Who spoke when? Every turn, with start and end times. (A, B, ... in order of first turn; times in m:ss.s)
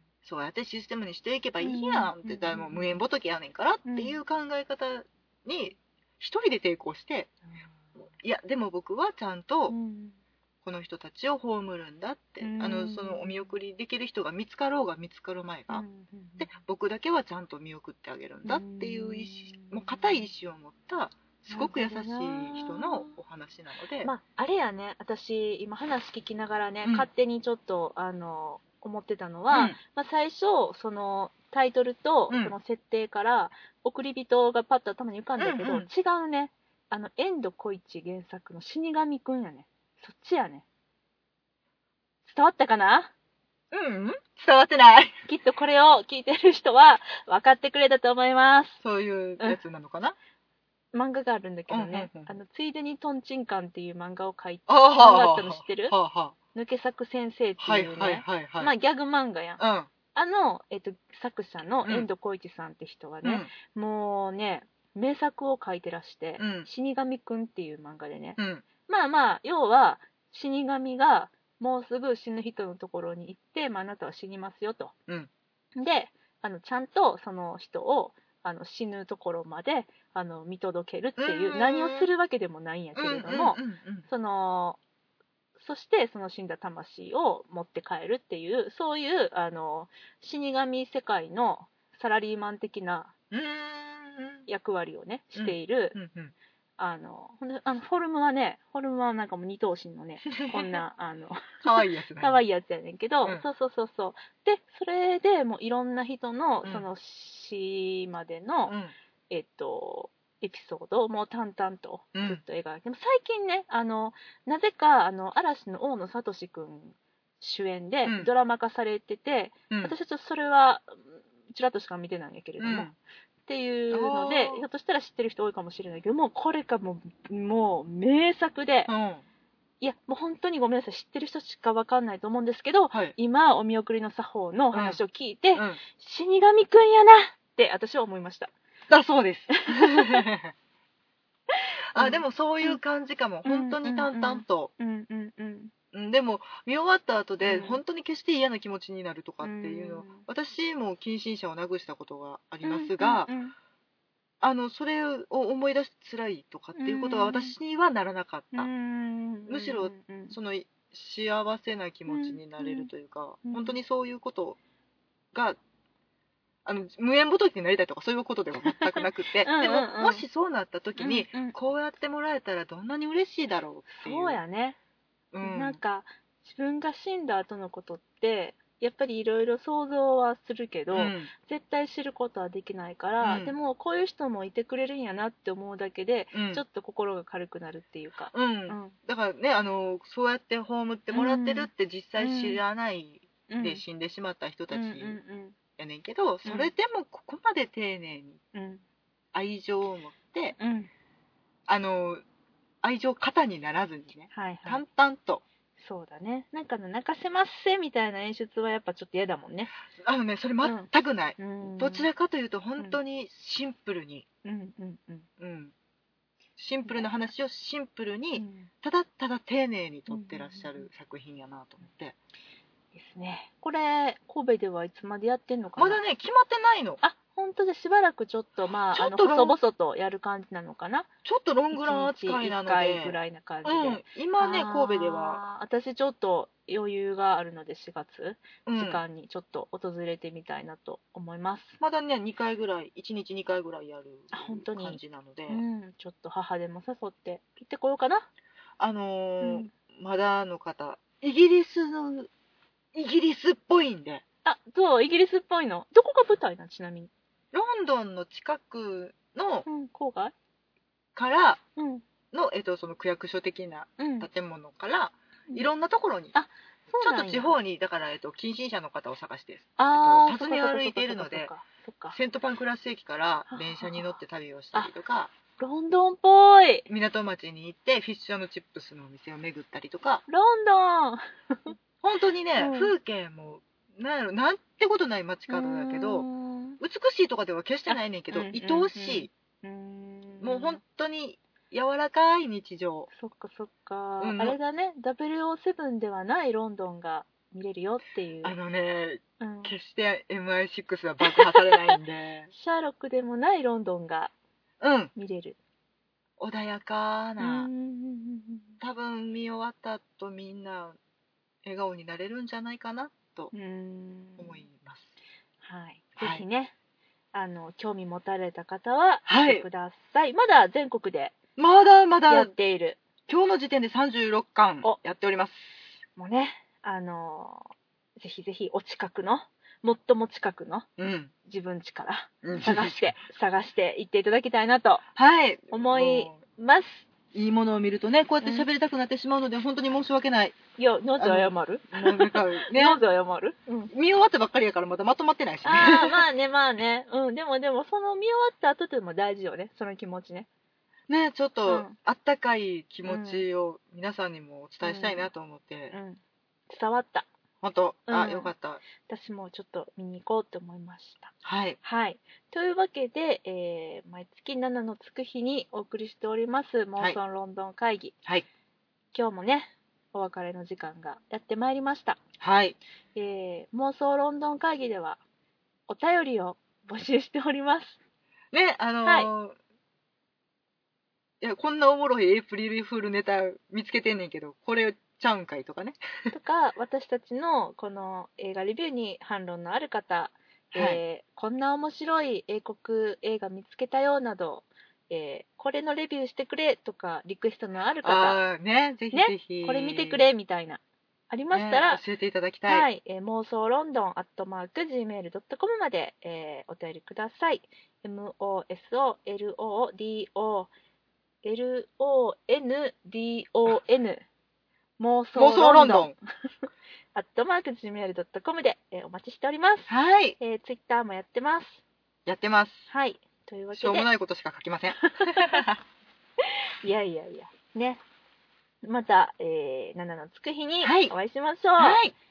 0:00.2-0:07.3 A
0:01.6-0:03.0 B
0:03.8-0:04.2 B
0:08.2-0:09.7 A
0:09.7-0:10.2 B
0:10.6-0:15.8 A
0:12.4-0:13.5 B
0:15.7-0:16.6 B
0:16.4-0:24.1 A
0:18.4-0:20.3 B
0:21.5-0:23.1 B
0:24.0-0:40.6 B
0:29.5-0:29.8 A
0:32.3-0:32.5 A
0:35.4-0:35.9 A
0:42.2-0:43.1 B
0:43.7-0:45.1 A
0:45.2-0:48.8 B
0:48.8-0:50.2 A
0:50.9-0:56.0 B
0:51.7-0:52.3 A
0:54.7-0:56.3 A
0:56.5-0:59.6 B
0:57.6-0:58.7 A
0:59.6-0:59.9 A
1:00.1-1:14.9 B
1:03.2-1:03.5 A
1:06.4-1:06.7 A
1:08.4-1:08.6 A
1:15.8-1:24.8 B
1:21.2-1:22.1 A
1:23.0-1:24.1 A
1:25.6-1:33.1 B
1:33.3-1:34.4 A
1:34.5-1:36.0 B
1:35.3-1:36.3 A
1:36.8-1:48.8 B
1:40.3-1:40.8 A
1:41.6-1:42.4 A
1:48.6-1:48.9 A
1:49.3-2:02.9 B
1:52.1-1:52.4 A
1:58.0-1:58.3 A
1:59.7-1:59.9 A
2:02.6-2:02.9 A
2:03.4-2:08.9 B
2:03.9-2:04.6 A
2:08.9-2:09.2 A
2:09.8-2:18.5 B
2:14.7-2:15.0 A
2:15.5-2:15.8 A
2:18.9-2:20.5 A
2:19.5-2:20.3 B
2:21.5-2:22.8 B
2:21.9-2:24.7 A
2:23.4-2:25.7 B
2:25.9-2:33.3 A
2:27.4-2:27.8 B
2:29.4-2:30.2 B
2:32.6-2:33.5 B
2:34.4-2:38.7 A
2:36.8-2:37.6 B
2:38.5-2:40.4 B
2:39.5-2:44.6 A
2:42.1-2:42.9 B
2:43.4-2:43.8 B
2:45.3-2:45.6 A
2:46.6-2:54.4 A
2:48.7-2:50.2 B
2:51.0-2:51.5 B
2:53.9-2:54.8 B
2:55.3-2:55.8 A
2:55.4-3:09.0 B
3:00.9-3:01.3 A
3:03.2-3:03.5 A
3:06.3-3:06.6 A
3:08.3-3:15.2 A
3:11.1-3:12.6 B
3:13.5-3:13.8 B
3:14.7-3:15.6 B
3:15.8-3:18.4 A
3:16.4-3:16.7 B
3:18.5-3:18.8 B
3:19.3-3:20.6 A
3:20.6-3:20.9 B
3:21.7-3:22.2 A
3:22.8-3:25.4 A
3:24.3-3:24.8 B
3:25.8-3:29.7 B
3:29.9-3:34.2 A
3:30.6-3:32.1 B
3:34.4-3:35.3 B
3:35.4-3:35.7 A
3:36.6-3:42.1 A
3:36.8-3:37.1 B
3:38.4-3:38.7 B
3:40.1-3:40.9 B
3:42.9-3:46.0 B
3:45.8-3:47.0 A
3:47.0-3:51.1 B
3:48.9-3:49.6 A
3:51.2-3:55.4 A
3:51.7-4:01.8 B
3:58.6-3:59.0 A
4:01.8-4:05.6 A
4:04.3-4:08.3 B
4:08.8-4:12.3 A
4:09.4-4:09.7 B
4:12.9-4:14.2 A
4:14.4-4:17.1 B
4:17.5-4:19.6 A
4:19.6-4:20.3 B
4:21.1-4:21.6 A
4:21.8-4:22.0 B
4:22.3-4:26.3 A
4:24.0-4:24.3 B
4:26.3-4:27.6 B
4:27.0-4:31.5 A
4:29.8-4:32.2 B
4:32.1-4:35.3 A
4:33.5-4:34.2 B
4:35.6-4:36.9 B
4:36.9-4:40.2 A
4:40.3-4:41.8 B
4:42.0-4:46.2 A
4:42.6-4:42.9 B
4:45.5-4:46.8 B
4:46.8-4:49.3 A
4:47.9-4:50.8 B
4:50.4-4:53.1 A
4:53.1-4:58.6 B
4:54.2-4:54.6 A
4:58.4-5:02.5 A
4:59.4-4:59.7 B
5:01.2-5:02.0 B
5:02.5-5:04.3 B
5:04.8-5:05.1 A
5:05.1-5:05.6 B
5:06.4-5:07.7 A
5:07.4-5:08.8 B
5:08.8-5:11.0 A
5:11.6-5:13.5 A
5:13.5-5:14.6 B
5:14.4-5:15.2 A
5:15.6-5:16.7 B
5:16.2-5:16.4 A
5:17.3-5:21.4 B
5:19.3-5:19.6 A
5:21.6-5:22.5 A
5:22.3-5:23.0 B
5:23.3-5:26.0 A
5:26.2-5:30.9 B
5:31.0-5:31.3 A
5:31.4-5:35.0 B
5:32.4-5:33.2 A
5:35.2-5:36.4 A
5:35.7-5:37.1 B
5:37.3-5:40.6 A
5:38.4-5:38.7 B
5:40.8-5:43.9 B
5:41.2-5:43.0 A
5:43.9-5:46.2 A
5:45.6-5:50.5 B
5:51.1-5:55.9 A
5:51.6-5:52.0 B
5:53.0-5:53.4 B
5:54.8-5:55.3 B
5:55.9-5:57.3 B
5:57.6-5:58.8 A
5:58.1-6:08.1 B
6:01.4-6:01.8 A
6:09.1-6:12.2 B
6:12.4-6:12.8 A
6:13.1-6:15.2 B
6:15.9-6:18.0 B
6:18.5-6:19.6 A
6:19.0-6:19.3 B
6:21.4-6:26.0 A
6:26.3-6:38.4 B
6:30.7-6:31.0 A
6:38.0-6:40.3 A
6:39.1-6:42.0 B
6:41.5-6:42.9 A
6:42.7-6:50.7 B
6:51.4-6:54.2 B
6:55.0-6:56.2 B
6:55.3-6:56.1 A
6:57.1-7:01.8 B
6:59.9-7:00.4 A
7:02.2-7:02.9 A
7:02.9-7:04.1 B
7:03.7-7:05.8 A
7:05.0-7:05.6 B
7:06.4-7:08.0 B
7:08.8-7:12.0 B
7:10.8-7:11.1 A
7:11.8-7:12.1 A